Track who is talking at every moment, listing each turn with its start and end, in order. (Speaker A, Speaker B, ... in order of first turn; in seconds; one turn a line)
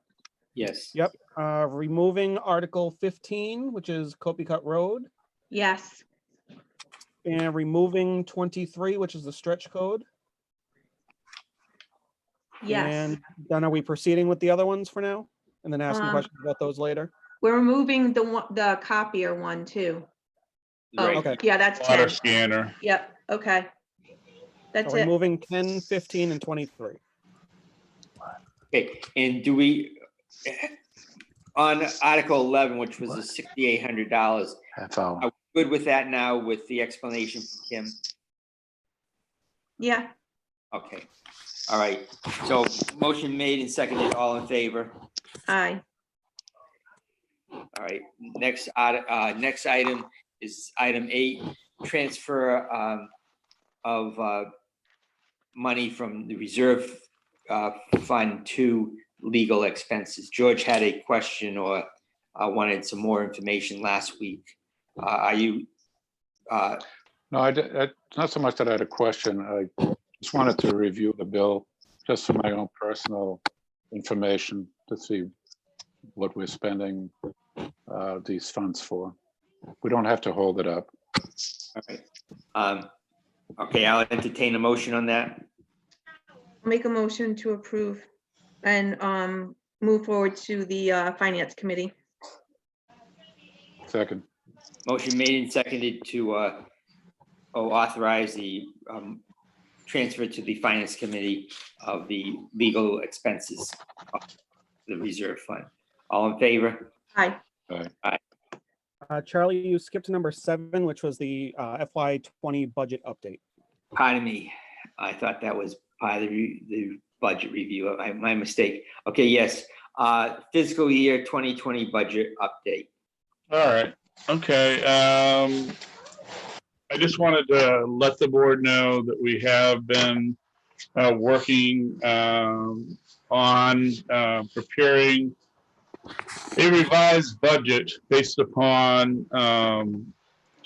Speaker A: 0.6-0.9
Speaker B: 0.9-5.1
Speaker C: 5.5-6.0
Speaker B: 7.2-10.1
Speaker C: 12.6-13.1
Speaker B: 12.7-17.1
Speaker C: 15.9-16.3
Speaker C: 17.4-20.1
Speaker A: 20.9-21.4
Speaker C: 21.0-22.2
Speaker B: 21.1-21.4
Speaker D: 21.8-22.8
Speaker C: 22.8-23.7
Speaker C: 24.7-25.1
Speaker B: 24.9-27.0
Speaker A: 28.7-30.7
Speaker A: 31.6-34.6
Speaker E: 34.8-35.3
Speaker A: 35.2-38.0
Speaker C: 39.8-40.1
Speaker A: 40.7-41.1
Speaker A: 41.7-45.0
Speaker C: 45.5-45.8
Speaker A: 47.7-53.1
Speaker A: 53.8-54.5
Speaker A: 55.5-65.7
Speaker A: 66.5-66.8
Speaker E: 67.3-73.4
Speaker E: 73.9-75.3
Speaker E: 76.2-77.1
Speaker E: 77.9-79.2
Speaker E: 79.8-80.9
Speaker A: 81.8-82.0
Speaker A: 82.5-82.9
Speaker A: 83.6-85.5
Speaker C: 86.6-88.1
Speaker C: 88.6-91.9
Speaker E: 93.9-94.2
Speaker A: 94.8-96.7
Speaker A: 97.5-99.2
Speaker A: 99.9-104.2
Speaker A: 104.9-106.9
Speaker B: 109.1-113.4
Speaker A: 114.0-122.9
Speaker D: 123.5-125.8
Speaker D: 126.9-130.4
Speaker D: 131.0-135.3
Speaker D: 136.6-140.1